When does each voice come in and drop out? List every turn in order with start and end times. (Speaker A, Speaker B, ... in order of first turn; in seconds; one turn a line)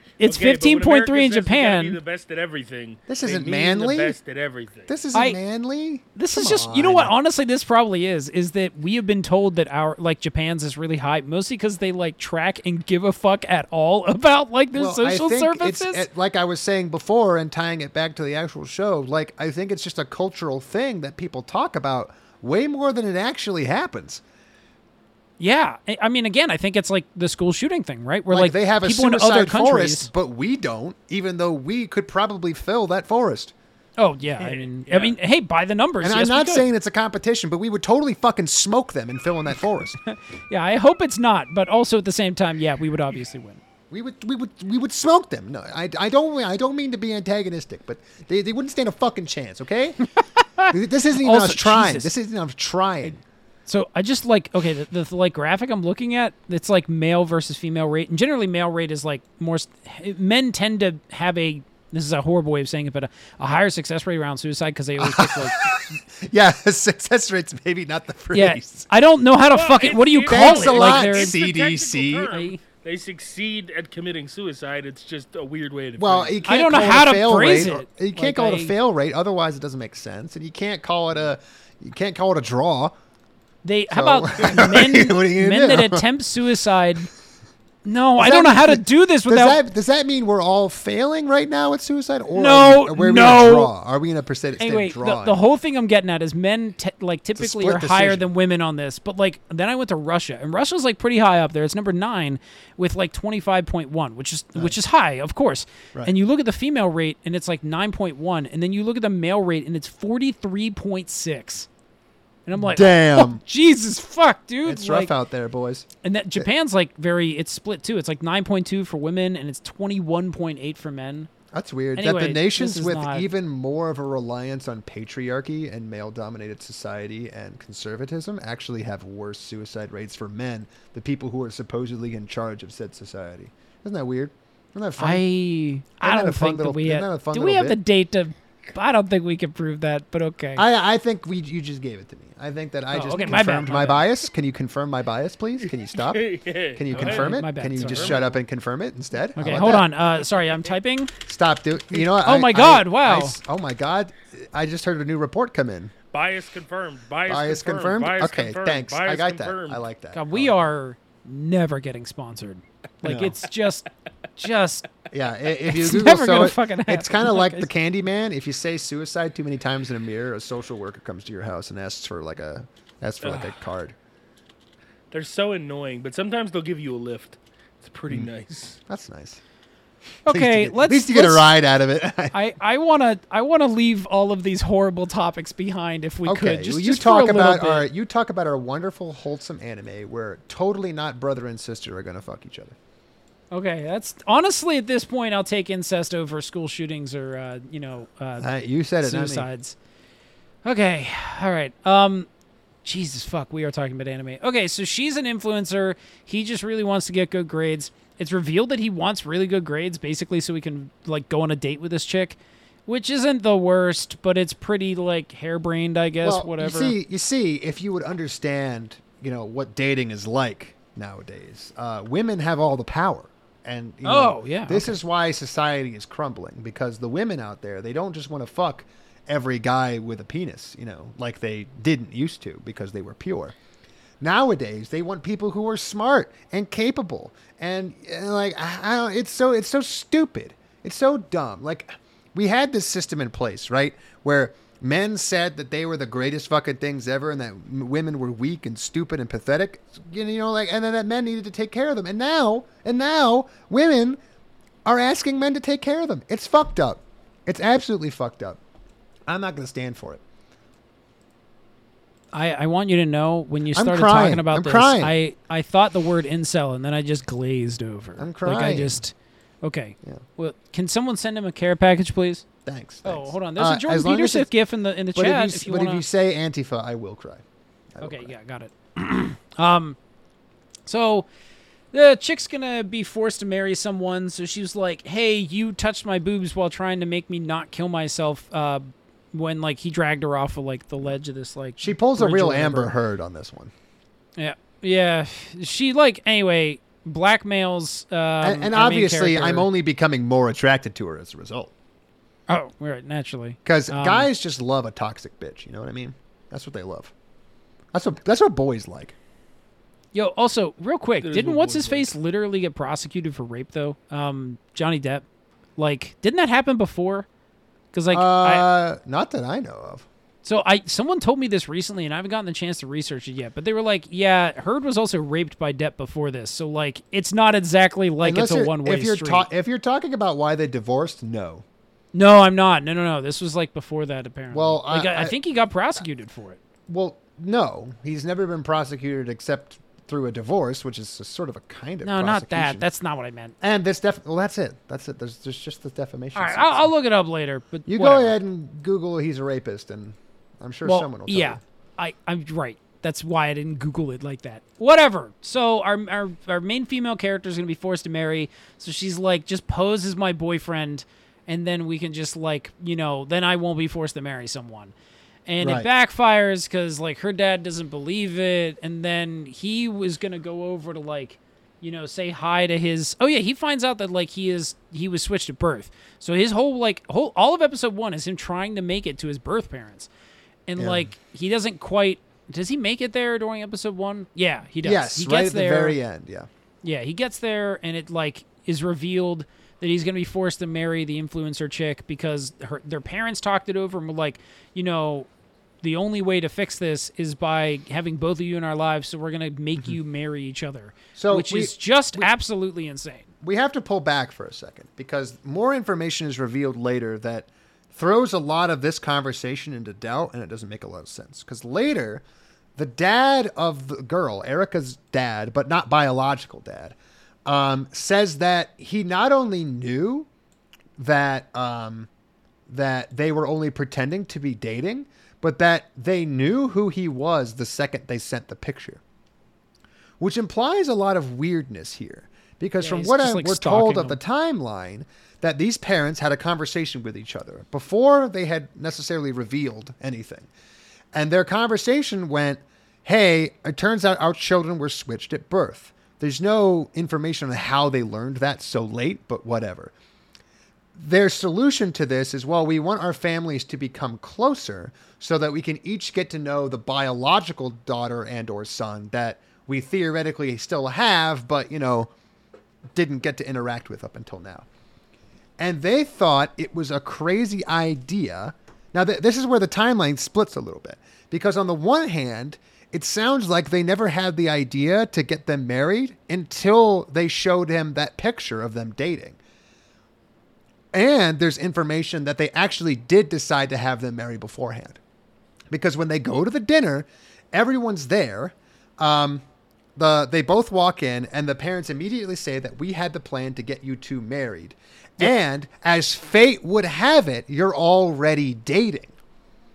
Speaker A: 0.2-2.0
Speaker B: 0.2-4.9
Speaker C: 3.1-4.2
Speaker C: 4.9-7.1
Speaker A: 5.1-5.4
Speaker A: 6.1-16.1
Speaker C: 14.7-24.2
Speaker A: 25.4-30.1
Speaker C: 28.3-33.5
Speaker A: 34.0-36.7
Speaker B: 34.4-35.2
Speaker C: 36.0-40.0
Speaker A: 40.0-43.6
Speaker C: 43.9-50.0
Speaker A: 50.4-52.1
Speaker C: 50.7-53.2
Speaker A: 53.7-65.7
Speaker C: 65.0-68.9
Speaker A: 68.3-71.3
Speaker B: 69.5-76.4
Speaker C: 70.3-72.3
Speaker A: 72.3-72.6
Speaker C: 76.0-83.0
Speaker A: 76.5-78.8
Speaker A: 83.6-87.1
Speaker C: 83.9-86.0
Speaker A: 87.8-89.6
Speaker C: 88.2-95.4
Speaker A: 92.3-93.7
Speaker A: 94.6-111.7
Speaker C: 97.4-98.3
Speaker A: 112.5-115.1
Speaker C: 112.6-113.4
Speaker C: 114.6-115.9
Speaker A: 116.0-121.3
Speaker C: 121.5-135.3
Speaker A: 122.0-123.3
Speaker A: 135.0-140.6
Speaker C: 136.0-137.8
Speaker C: 140.6-149.9
Speaker A: 142.9-144.1
Speaker B: 146.0-148.2
Speaker A: 146.9-148.4
Speaker A: 149.4-151.1
Speaker C: 151.3-155.9
Speaker A: 151.9-153.4
Speaker B: 156.1-159.8
Speaker C: 157.3-160.7
Speaker A: 160.1-164.9
Speaker C: 163.0-163.4
Speaker C: 165.1-173.9
Speaker A: 165.6-167.7
Speaker B: 173.2-173.6
Speaker B: 175.1-178.8
Speaker C: 178.9-179.4
Speaker A: 180.2-181.5
Speaker C: 180.3-182.4
Speaker A: 182.3-187.9
Speaker C: 186.2-192.8
Speaker A: 193.5-199.8
Speaker C: 198.4-199.5
Speaker A: 200.6-202.3
Speaker A: 202.8-216.9
Speaker C: 216.2-233.6
Speaker A: 224.0-225.0
Speaker C: 234.2-254.2
Speaker C: 254.8-258.6
Speaker C: 259.3-260.2
Speaker A: 262.3-272.4
Speaker C: 263.7-265.1
Speaker C: 268.2-269.0
Speaker C: 272.7-274.5
Speaker A: 273.0-276.0
Speaker C: 275.1-277.4
Speaker C: 277.9-278.3
Speaker A: 278.0-280.0
Speaker A: 280.9-281.3
Speaker A: 281.9-292.9
Speaker C: 291.8-293.7
Speaker A: 294.4-299.7
Speaker C: 298.4-301.7
Speaker A: 302.5-304.3
Speaker C: 303.6-307.1
Speaker C: 307.9-309.1
Speaker A: 310.1-315.2
Speaker B: 311.2-312.1
Speaker A: 315.8-317.3
Speaker A: 317.9-318.7
Speaker C: 318.1-320.1
Speaker A: 320.4-329.5
Speaker C: 328.2-331.6
Speaker A: 332.1-336.6
Speaker C: 334.5-335.3
Speaker C: 336.9-342.8
Speaker A: 342.0-343.6
Speaker C: 343.6-346.9
Speaker A: 346.3-348.4
Speaker C: 347.9-351.6
Speaker A: 350.8-364.9
Speaker A: 365.5-380.1
Speaker C: 365.6-365.9
Speaker A: 380.7-386.0
Speaker C: 380.8-381.1
Speaker C: 384.8-386.5
Speaker A: 386.8-395.3
Speaker A: 395.8-403.2
Speaker C: 401.2-402.3
Speaker C: 403.4-412.2
Speaker C: 412.8-420.3
Speaker C: 421.0-422.1
Speaker C: 422.7-429.0
Speaker C: 430.2-440.5
Speaker A: 432.8-434.2
Speaker C: 441.1-449.9
Speaker C: 451.0-462.1
Speaker C: 462.9-464.7
Speaker C: 465.6-479.4
Speaker C: 480.9-485.0
Speaker C: 485.7-489.4
Speaker C: 490.0-499.1